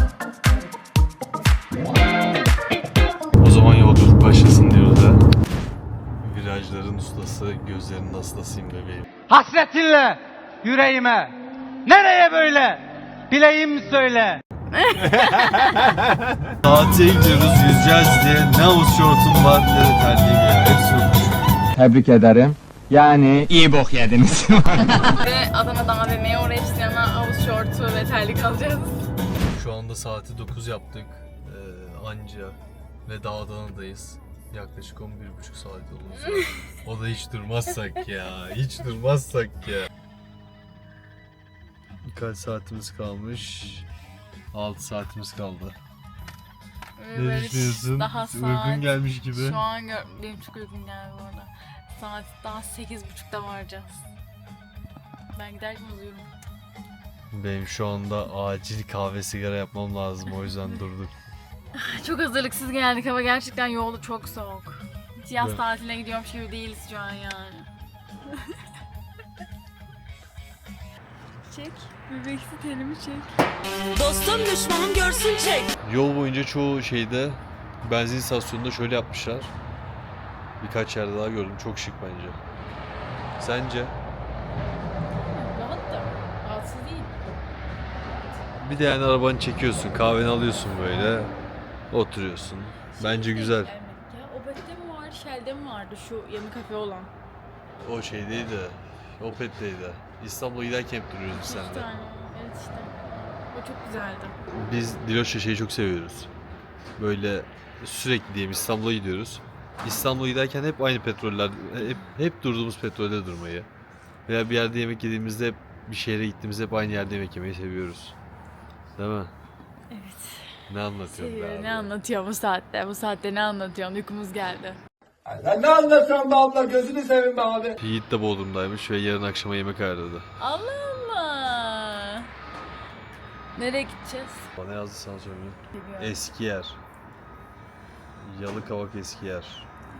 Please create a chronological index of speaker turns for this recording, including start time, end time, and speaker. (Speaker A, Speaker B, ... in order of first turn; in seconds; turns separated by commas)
Speaker A: 3.4-5.2, Speaker A: 6.2-9.1, Speaker B: 9.3-14.4, Speaker C: 14.7-15.9, Speaker A: 16.6-21.4, Speaker D: 21.7-25.1, Speaker C: 24.9-29.0, Speaker A: 29.5-39.9, Speaker C: 36.2-36.5, Speaker A: 42.0-43.9, Speaker A: 44.5-45.8, Speaker C: 47.0-54.0, Speaker A: 47.1-49.6, Speaker C: 55.4-56.3, Speaker A: 57.3-61.1, Speaker C: 61.7-67.7, Speaker C: 71.5-73.3, Speaker C: 73.9-75.7, Speaker A: 75.8-79.5, Speaker A: 80.6-82.4, Speaker A: 83.4-84.0, Speaker C: 85.3-87.1, Speaker A: 88.6-91.3, Speaker A: 91.9-93.7, Speaker C: 92.9-97.1, Speaker A: 97.8-101.9, Speaker C: 101.3-102.9, Speaker C: 103.5-104.3, Speaker A: 104.5-106.3, Speaker A: 107.0-113.7, Speaker A: 114.3-118.1, Speaker A: 119.0-119.3, Speaker C: 119.9-120.5, Speaker A: 120.7-121.9, Speaker C: 121.1-124.8, Speaker E: 125.3-127.8, Speaker A: 127.8-130.3, Speaker C: 130.4-132.3, Speaker C: 133.5-134.5, Speaker A: 134.6-136.8, Speaker C: 135.8-136.2, Speaker A: 138.2-139.7